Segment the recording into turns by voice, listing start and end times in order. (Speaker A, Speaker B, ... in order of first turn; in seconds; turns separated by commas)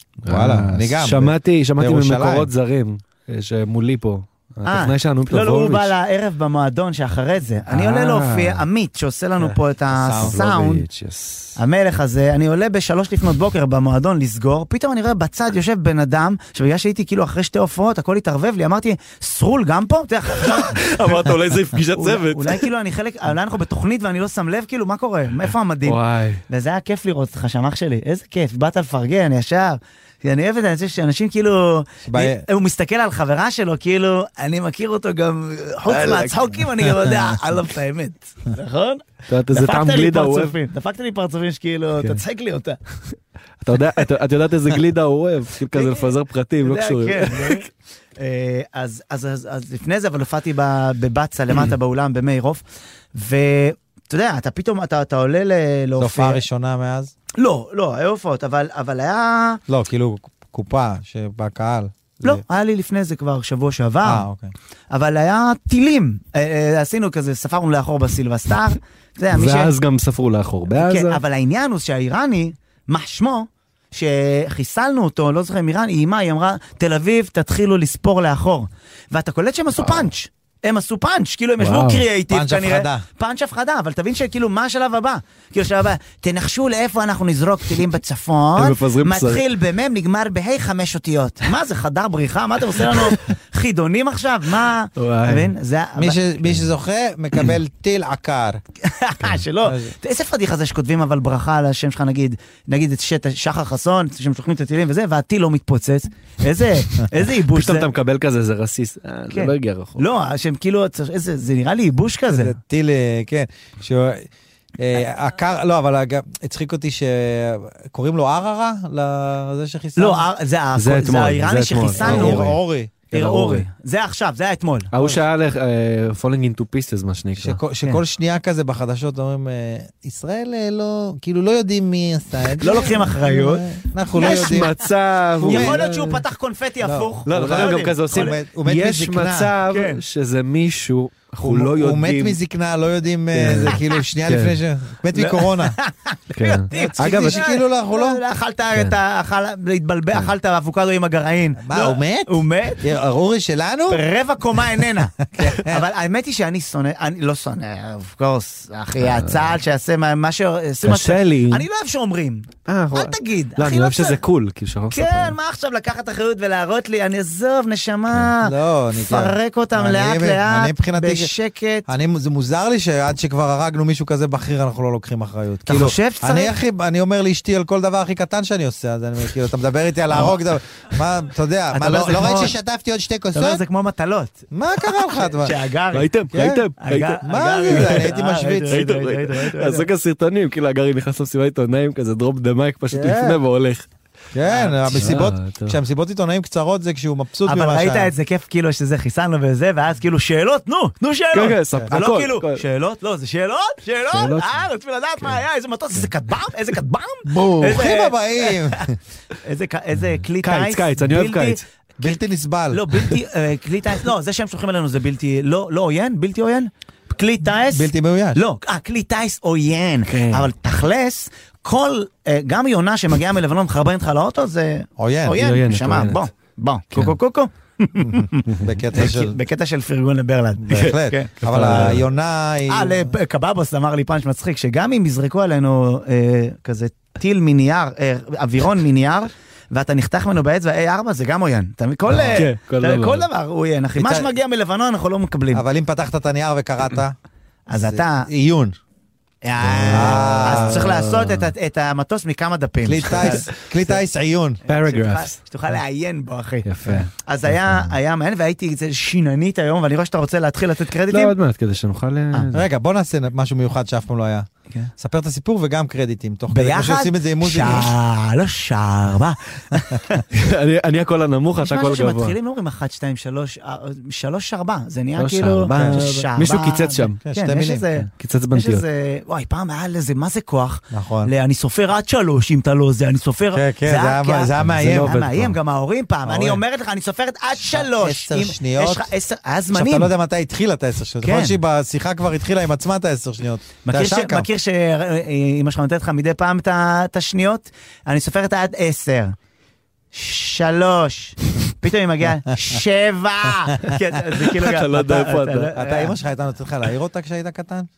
Speaker A: 0.2-5.9, Speaker B: 0.3-2.5, Speaker C: 4.7-10.8, Speaker A: 7.7-8.6, Speaker B: 9.9-10.4, Speaker A: 10.2-11.6, Speaker C: 11.6-21.2, Speaker A: 20.3-22.7, Speaker C: 21.9-42.8, Speaker A: 25.8-26.4, Speaker B: 32.0-32.4, Speaker A: 35.9-36.5, Speaker A: 39.3-40.5, Speaker A: 43.6-47.6, Speaker C: 45.7-46.1, Speaker C: 46.6-47.7, Speaker C: 48.2-52.6, Speaker C: 53.1-56.4, Speaker B: 56.0-57.1, Speaker C: 57.4-59.6, Speaker B: 59.7-62.4, Speaker C: 62.2-64.2, Speaker B: 64.0-64.5, Speaker C: 64.9-69.7, Speaker A: 69.3-71.2, Speaker C: 70.7-96.2, Speaker A: 81.6-82.0, Speaker B: 82.3-83.0, Speaker A: 88.6-89.5, Speaker A: 95.0-95.5, Speaker B: 96.0-98.6, Speaker C: 98.8-107.9, Speaker B: 99.6-99.9, Speaker A: 107.5-110.0, Speaker C: 109.3-112.5, Speaker B: 112.3-120.2, Speaker C: 120.0-122.5, Speaker A: 120.8-122.6, Speaker B: 122.0-122.9, Speaker A: 123.1-123.7, Speaker C: 123.1-124.9, Speaker A: 124.9-127.6, Speaker B: 127.4-134.7, Speaker C: 132.6-133.6, Speaker A: 134.1-136.2, Speaker B: 135.4-135.8, Speaker C: 135.4-138.3, Speaker B: 136.8-139.5, Speaker A: 137.2-142.4, Speaker C: 139.7-140.0, Speaker B: 141.4-145.8, Speaker A: 143.3-144.6, Speaker C: 145.1-152.8, Speaker A: 146.3-147.4, Speaker B: 146.7-148.2, Speaker B: 151.6-154.0, Speaker C: 153.9-164.2, Speaker B: 155.2-155.8, Speaker A: 159.0-159.6, Speaker A: 160.8-161.7, Speaker A: 162.7-165.3, Speaker C: 164.9-168.5, Speaker B: 168.4-171.3, Speaker C: 169.1-171.9, Speaker B: 171.9-183.6, Speaker C: 175.7-176.6, Speaker C: 181.7-182.5, Speaker C: 183.3-186.1, Speaker B: 184.5-185.6, Speaker A: 185.9-188.1, Speaker B: 186.3-186.7, Speaker C: 186.8-189.9, Speaker B: 187.2-188.8, Speaker A: 188.7-193.8, Speaker B: 192.9-193.4, Speaker B: 194.3-198.1, Speaker C: 194.4-195.1, Speaker A: 194.9-195.8, Speaker C: 197.4-208.8, Speaker A: 201.3-202.6, Speaker A: 204.1-204.6, Speaker B: 207.3-208.9, Speaker C: 209.4-212.2, Speaker A: 210.4-211.6, Speaker B: 212.0-212.8, Speaker C: 212.7-231.8, Speaker B: 217.7-218.4, Speaker A: 220.1-220.5, Speaker B: 225.0-225.4, Speaker A: 225.4-226.2, Speaker B: 228.6-229.3, Speaker B: 230.6-233.1, Speaker A: 231.4-232.0, Speaker C: 232.7-245.6, Speaker B: 242.1-242.4, Speaker A: 242.3-243.3, Speaker B: 244.0-244.3, Speaker B: 245.5-247.1, Speaker C: 247.7-248.3, Speaker B: 247.7-248.8, Speaker C: 249.4-253.5, Speaker A: 249.6-251.5, Speaker B: 249.9-250.9, Speaker B: 252.8-254.6, Speaker C: 254.6-261.3, Speaker A: 254.7-255.3, Speaker A: 256.6-257.1, Speaker A: 261.1-262.6, Speaker B: 262.5-267.9, Speaker C: 266.5-270.2, Speaker A: 270.3-272.4, Speaker C: 271.6-290.1, Speaker A: 275.2-277.2, Speaker B: 275.7-276.0, Speaker B: 277.2-277.9, Speaker A: 278.1-278.8, Speaker B: 280.9-281.3, Speaker B: 283.5-285.5, Speaker A: 284.8-285.4, Speaker B: 286.2-286.6, Speaker B: 287.6-289.1, Speaker B: 289.7-294.5, Speaker C: 291.2-291.6, Speaker C: 293.8-299.3, Speaker C: 300.1-306.1, Speaker A: 304.4-305.7, Speaker B: 305.7-307.9